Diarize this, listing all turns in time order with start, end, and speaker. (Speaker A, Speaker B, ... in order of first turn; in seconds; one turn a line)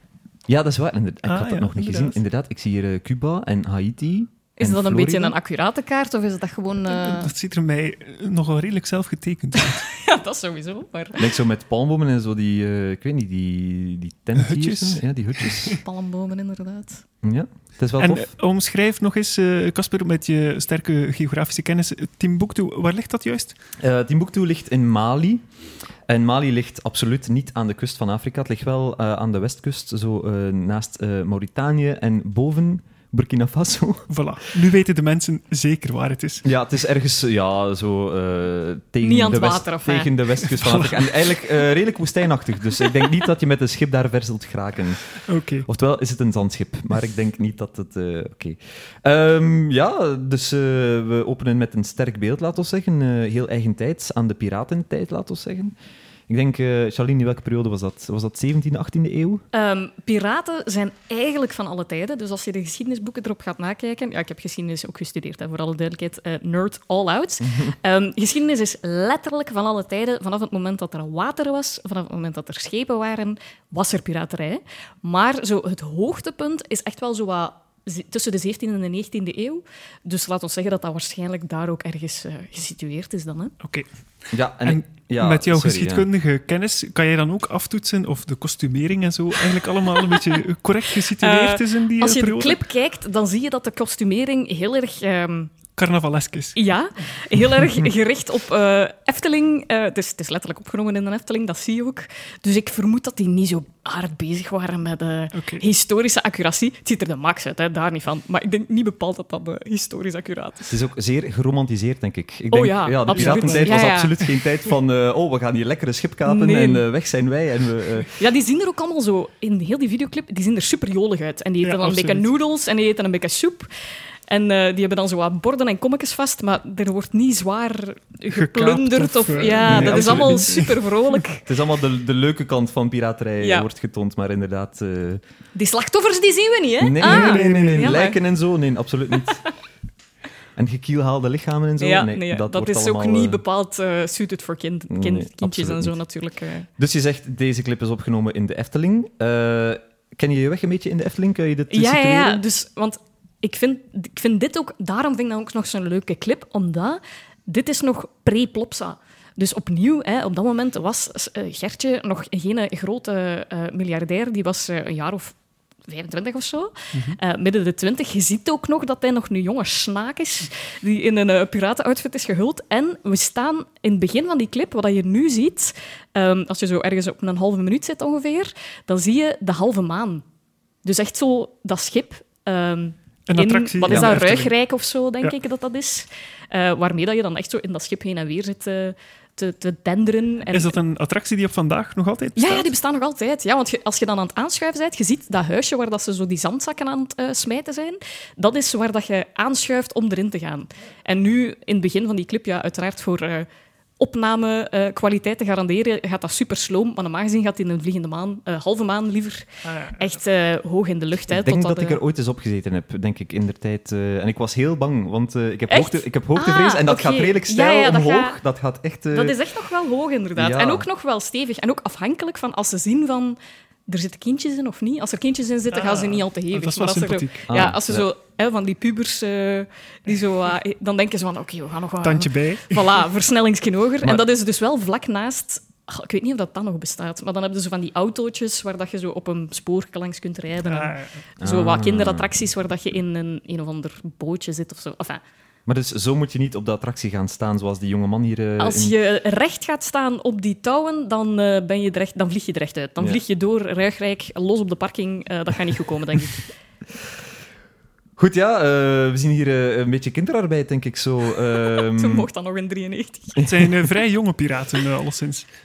Speaker A: 0.5-5.3
Speaker B: 1.2-2.2
Speaker C: 4.6-7.3
Speaker B: 6.9-9.9
Speaker C: 9.8-11.3
Speaker A: 11.2-15.8
Speaker B: 14.4-15.8
Speaker C: 15.8-17.0
Speaker A: 17.2-18.2
Speaker B: 18.0-23.5
Speaker A: 23.8-25.4
Speaker A: 26.1-34.1
Speaker B: 34.1-36.5
Speaker A: 36.4-45.1
Speaker C: 39.0-40.1
Speaker B: 40.5-41.3
Speaker B: 45.3-45.7
Speaker A: 45.6-55.7
Speaker A: 56.3-59.4
Speaker C: 59.5-83.5
Speaker A: 67.4-67.7
Speaker A: 84.3-86.1
Speaker B: 84.6-92.6
Speaker C: 89.9-90.3
Speaker C: 91.2-95.5
Speaker B: 95.8-96.6
Speaker C: 96.5-110.7
Speaker B: 105.3-105.6
Speaker A: 110.7-118.1
Speaker C: 112.5-114.1
Speaker B: 113.1-113.9
Speaker C: 116.2-116.8
Speaker C: 118.2-123.7
Speaker B: 121.6-122.3
Speaker C: 124.3-131.4
Speaker B: 128.3-131.2
Speaker A: 129.6-130.6
Speaker A: 131.4-135.2
Speaker C: 133.4-133.7
Speaker C: 135.5-138.2
Speaker A: 136.8-139.4
Speaker B: 137.0-138.0
Speaker C: 139.2-139.5
Speaker A: 140.6-143.4
Speaker C: 141.8-146.7
Speaker A: 144.9-145.9
Speaker A: 146.8-152.4
Speaker C: 151.7-165.3
Speaker C: 165.9-180.2
Speaker B: 166.9-167.2
Speaker C: 180.8-190.8
Speaker B: 183.3-184.5
Speaker A: 183.8-184.2
Speaker B: 190.5-192.7
Speaker C: 192.3-203.5
Speaker C: 204.0-212.0
Speaker B: 209.7-210.1
Speaker A: 211.3-219.4
Speaker C: 215.7-218.4
Speaker C: 219.1-245.2
Speaker A: 220.3-220.8
Speaker B: 225.7-227.5
Speaker A: 227.5-228.1
Speaker B: 232.0-233.0
Speaker B: 240.7-241.2
Speaker A: 241.4-242.3
Speaker A: 245.7-248.9
Speaker C: 248.6-256.5
Speaker A: 258.2-262.3
Speaker C: 261.6-263.5
Speaker A: 263.4-263.7
Speaker B: 263.4-265.4